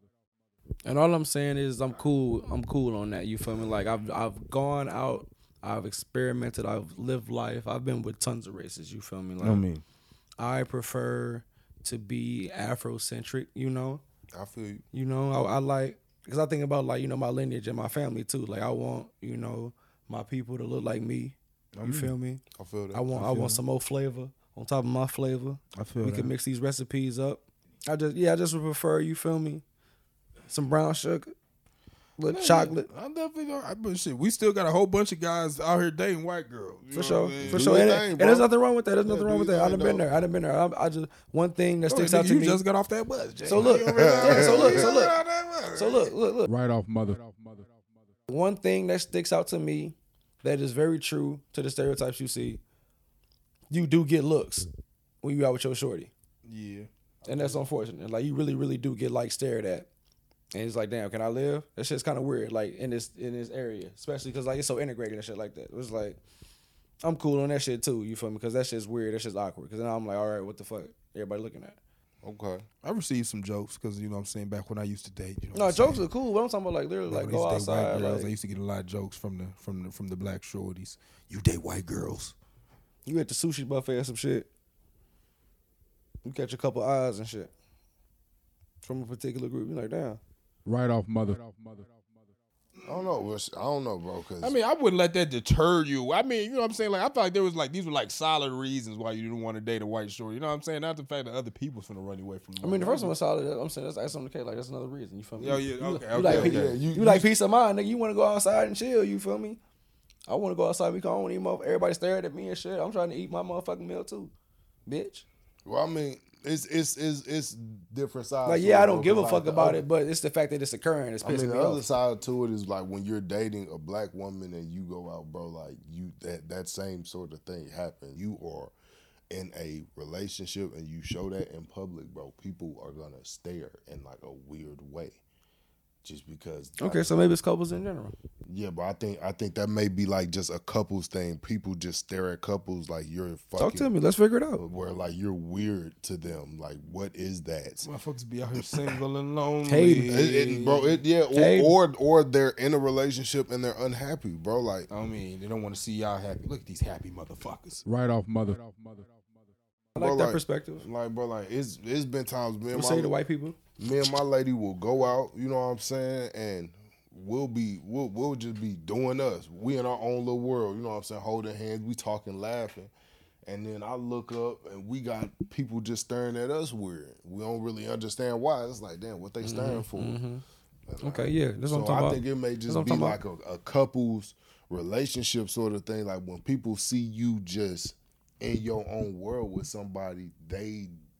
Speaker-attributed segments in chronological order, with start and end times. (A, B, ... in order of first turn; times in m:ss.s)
0:00.8-0:09.6 A
0:09.4-0:09.8 B
0:10.4-0:14.0 A
0:14.3-0:14.8 C
0:14.9-0:29.6 A
0:21.8-0:22.1 B
0:22.5-0:23.0 C
0:23.1-0:23.6 B
0:25.7-0:26.3 B
0:30.5-0:31.3 A
0:32.2-0:32.9 A
0:32.3-0:37.9 B
0:36.9-0:42.6 A
0:37.4-0:38.5 C
0:39.0-0:40.1 C
0:41.9-0:46.1 B
0:43.4-0:45.2 A
0:43.5-0:44.9 C
0:45.7-0:46.5 A
0:46.4-0:47.7 D
0:48.3-0:52.6 A
0:53.7-0:54.7 A
0:55.2-0:56.1 A
0:56.4-0:57.6 B
0:57.2-0:59.9 A
1:00.5-1:06.2 A
1:07.0-1:11.8 A
1:12.2-1:12.6 C
1:12.8-1:16.0 B
1:15.5-1:18.3 A
1:17.1-1:22.3 B
1:23.0-1:24.5 A
1:26.2-1:27.5 A
1:28.8-1:30.2 A
1:30.6-1:32.0 D
1:32.8-1:34.6 C
1:34.4-1:43.1 B
1:42.6-1:49.6 A
1:45.4-1:46.8 B
1:46.2-1:47.3 C
1:50.3-1:54.3 A
1:54.8-1:55.2 A
1:55.6-1:59.8 C
1:58.4-2:01.8 A
2:01.2-2:08.7 C
2:09.3-2:15.2 C
2:16.0-2:17.1 C
2:16.8-2:18.1 A
2:18.5-2:23.9 C
2:23.6-2:24.6 A
2:24.6-2:27.9 C
2:27.8-2:30.5 B
2:29.6-2:30.8 A
2:30.0-2:34.9 C
2:31.3-2:31.7 A
2:34.9-2:37.8 B
2:37.8-2:39.1 D
2:39.9-2:40.8 A
2:40.0-2:43.2 C
2:42.7-2:43.6 A
2:43.8-2:52.9 C
2:53.4-3:00.2 C
2:59.4-3:00.4 A
3:00.9-3:10.9 C
3:01.0-3:03.2 A